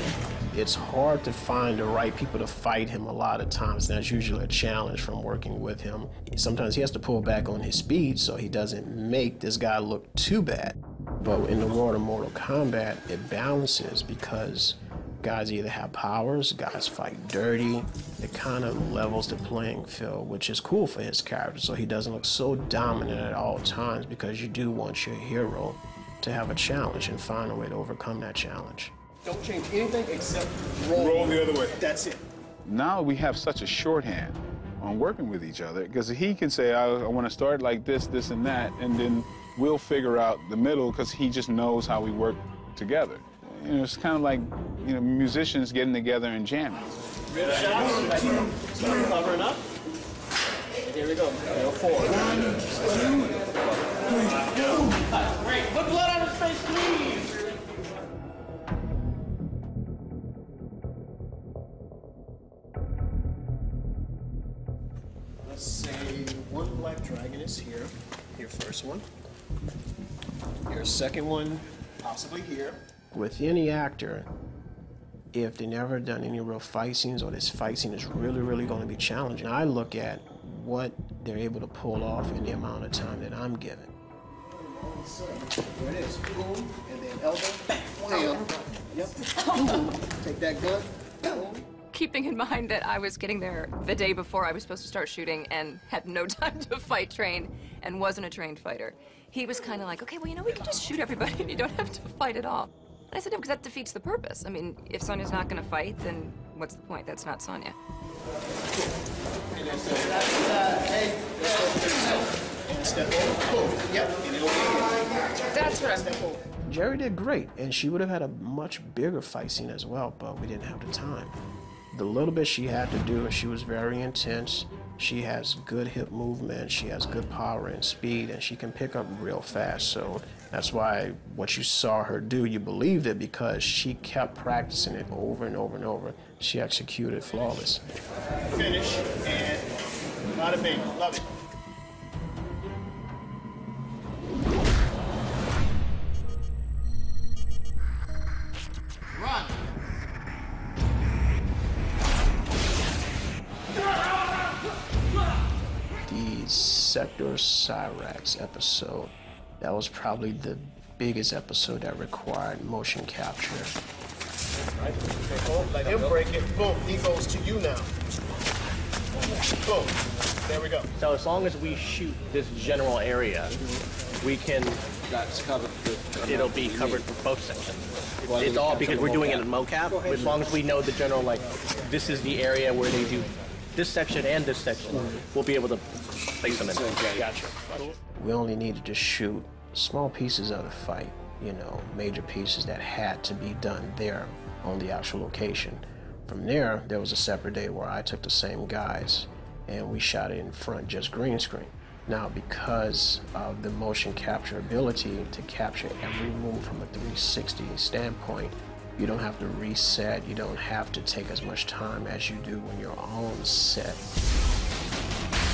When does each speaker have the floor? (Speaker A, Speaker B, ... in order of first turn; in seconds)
Speaker A: 0.5-28.9, 65.4-69.0, 70.7-74.3, 75.3-83.9, 116.7-121.3, 121.9-137.8, 156.1-163.7, 188.2-214.0
Speaker B: 29.2-32.2, 47.4-49.6, 51.2-53.2, 84.7-91.6, 109.5-116.3, 138.5-139.7, 140.3-141.2, 164.8-167.9, 169.7-169.9, 170.5-170.8
Speaker C: 30.9-31.8, 32.6-46.9
Speaker D: 55.4-57.0, 170.9-173.6, 174.2-174.8, 176.2-185.9, 186.4-187.6
Speaker E: 89.3-90.0, 91.9-107.8, 115.5-116.3